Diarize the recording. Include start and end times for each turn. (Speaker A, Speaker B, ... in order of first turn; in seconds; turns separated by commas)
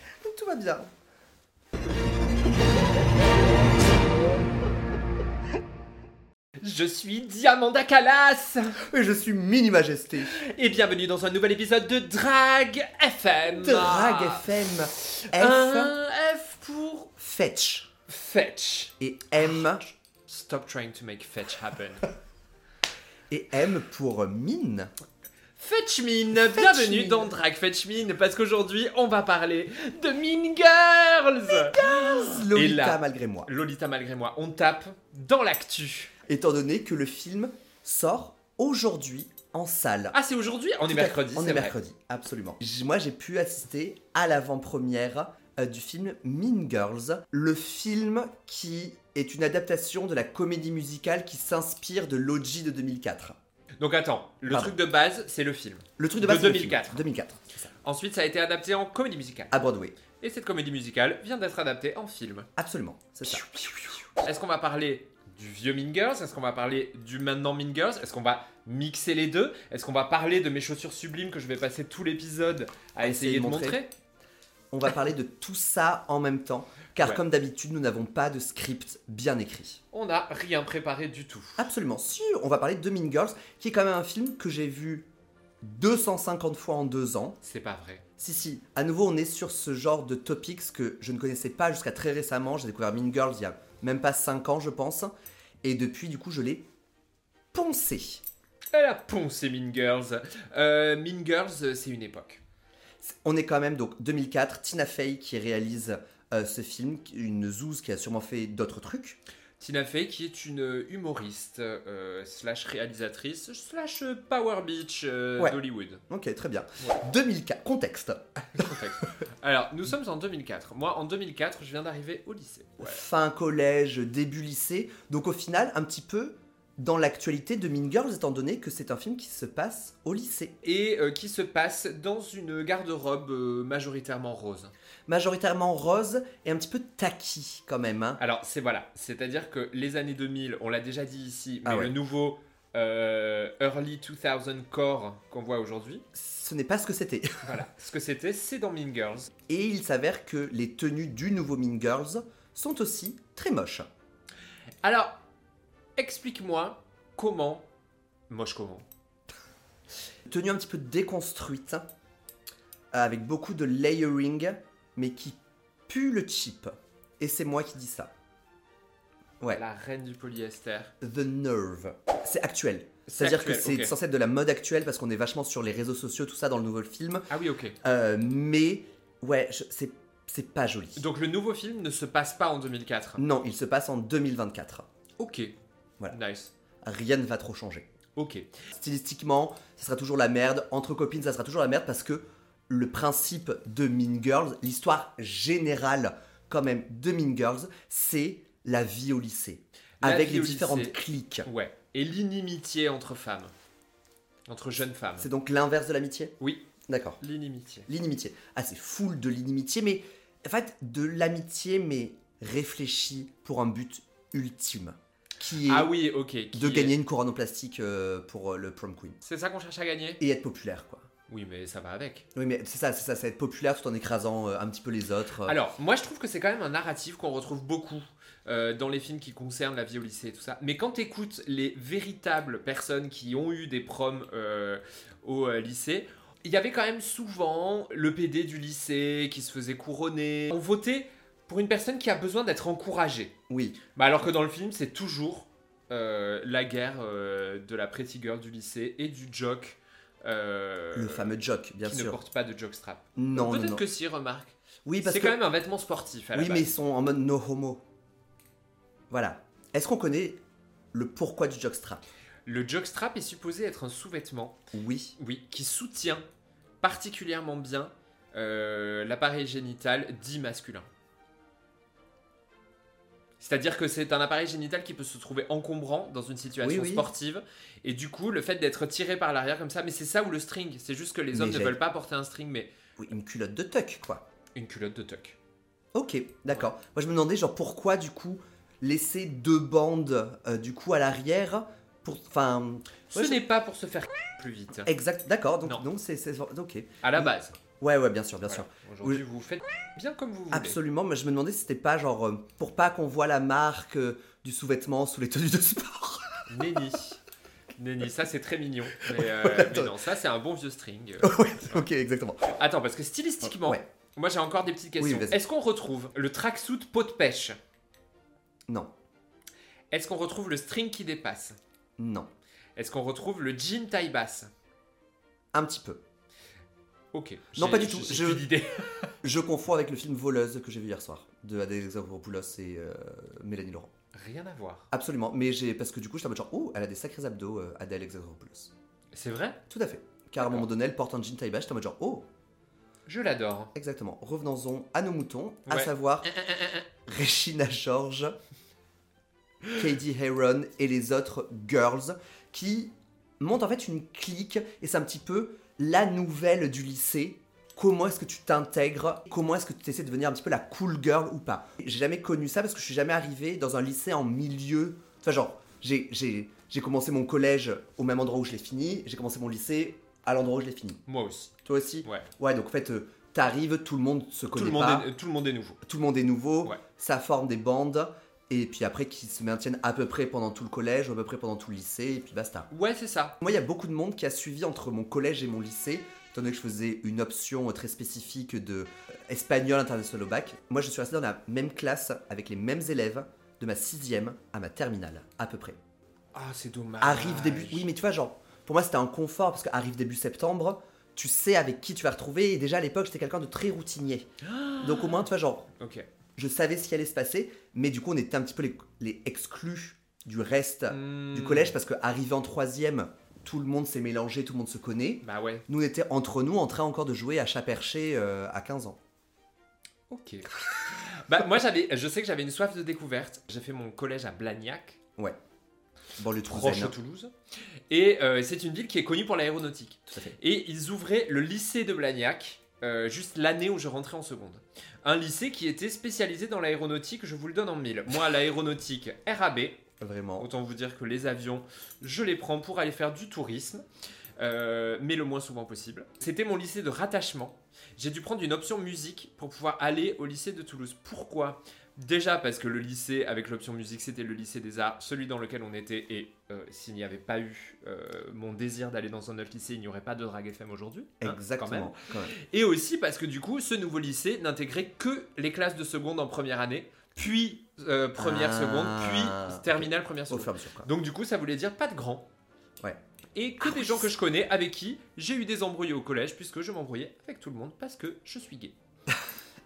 Speaker A: 0.2-0.9, Speaker B: 6.6-8.8, Speaker A: 8.8-10.4, Speaker B: 10.2-17.1, Speaker A: 13.5-15.9, Speaker A: 17.2-17.9, Speaker B: 18.1-18.9, Speaker A: 19.0-19.9, Speaker B: 20.2-22.1, Speaker A: 23.3-24.9, Speaker B: 25.6-36.1, Speaker A: 26.4-27.3, Speaker A: 31.5-33.5, Speaker A: 36.3-40.2, Speaker B: 40.1-41.8, Speaker A: 40.9-53.4, Speaker B: 53.8-57.0, Speaker A: 54.5-54.8, Speaker A: 56.0-57.7, Speaker B: 57.8-59.5, Speaker A: 59.5-60.0, Speaker B: 60.1-62.5, Speaker A: 62.6-63.6, Speaker B: 63.3-73.9, Speaker A: 73.0-73.8, Speaker A: 74.7-79.8, Speaker B: 79.9-81.7, Speaker A: 81.6-85.1, Speaker A: 85.6-87.4, Speaker B: 87.4-88.0, Speaker A: 88.2-95.1, Speaker A: 95.6-96.7, Speaker A: 97.5-98.2, Speaker B: 98.7-102.4, Speaker A: 103.0-109.2, Speaker B: 109.6-116.0, Speaker A: 116.1-118.7, Speaker B: 118.5-123.0, Speaker A: 122.8-130.6, Speaker B: 130.6-134.7, Speaker A: 135.1-138.2, Speaker B: 138.2-146.1, Speaker A: 141.6-141.9, Speaker A: 146.1-147.6, Speaker B: 147.4-149.3, Speaker A: 149.5-153.9, Speaker B: 154.8-155.2, Speaker B: 156.0-157.7, Speaker B: 158.3-158.8, Speaker A: 160.3-161.8, Speaker A: 162.9-168.1, Speaker B: 169.5-170.9, Speaker A: 171.0-177.3, Speaker B: 173.1-173.9, Speaker B: 177.3-177.8, Speaker A: 177.8-181.0, Speaker B: 181.0-183.2, Speaker A: 183.2-184.8, Speaker B: 185.2-185.5, Speaker B: 186.1-186.5, Speaker A: 186.8-187.9, Speaker B: 188.2-188.5, Speaker A: 188.7-201.5, Speaker B: 200.0-203.5, Speaker B: 204.5-205.3, Speaker A: 205.2-207.2, Speaker B: 206.4-206.7, Speaker B: 207.2-207.9, Speaker A: 207.9-215.9, Speaker B: 215.6-216.9, Speaker A: 216.5-219.2, Speaker B: 219.2-220.2, Speaker A: 220.2-221.1, Speaker B: 221.3-222.3, Speaker A: 222.3-225.6, Speaker B: 225.4-243.3, Speaker A: 243.5-243.8, Speaker B: 243.9-256.7, Speaker A: 250.9-252.2, Speaker A: 253.2-253.8, Speaker A: 254.8-255.4, Speaker A: 256.3-257.8, Speaker A: 259.1-260.4, Speaker A: 260.9-262.0, Speaker B: 262.4-264.6, Speaker A: 264.7-265.1, Speaker B: 265.2-266.2, Speaker B: 266.8-270.9, Speaker B: 273.4-282.7, Speaker A: 276.6-277.1, Speaker A: 281.3-281.8, Speaker A: 283.0-284.2, Speaker B: 284.5-285.4, Speaker A: 285.9-293.4, Speaker B: 293.1-294.9, Speaker A: 294.9-299.2, Speaker B: 297.0-297.5, Speaker B: 298.5-300.8, Speaker A: 300.5-306.4, Speaker B: 306.5-307.2, Speaker B: 307.8-311.8, Speaker A: 309.1-309.9, Speaker A: 311.2-312.5, Speaker B: 312.5-317.6, Speaker A: 313.4-313.8, Speaker A: 315.0-315.4, Speaker B: 319.9-321.6, Speaker A: 322.0-322.3, Speaker B: 322.8-324.5, Speaker A: 325.5-326.0, Speaker B: 327.1-329.1, Speaker A: 327.5-328.5, Speaker A: 329.2-333.9, Speaker B: 334.1-334.9, Speaker A: 334.9-338.7, Speaker B: 339.1-339.6, Speaker A: 339.7-342.3, Speaker B: 340.4-340.6, Speaker B: 343.1-343.7, Speaker A: 343.7-346.3, Speaker B: 345.7-346.9, Speaker A: 347.1-348.4, Speaker A: 349.7-371.0, Speaker B: 371.1-371.5, Speaker A: 371.6-375.1, Speaker B: 374.5-375.8, Speaker A: 375.8-382.7, Speaker B: 382.7-383.4, Speaker A: 383.4-395.8, Speaker B: 396.3-397.9, Speaker A: 397.0-404.3, Speaker B: 404.4-405.2, Speaker A: 404.8-405.7, Speaker B: 405.8-406.1, Speaker A: 406.4-419.0, Speaker B: 410.9-411.7, Speaker B: 415.2-415.6, Speaker B: 420.1-425.0, Speaker A: 426.2-426.9, Speaker B: 426.5-427.3, Speaker B: 427.9-439.8, Speaker A: 430.1-430.4, Speaker A: 440.0-440.5, Speaker B: 440.4-443.8, Speaker B: 444.4-472.2, Speaker A: 461.2-462.3, Speaker A: 468.2-470.9, Speaker B: 473.3-478.8, Speaker A: 473.6-474.1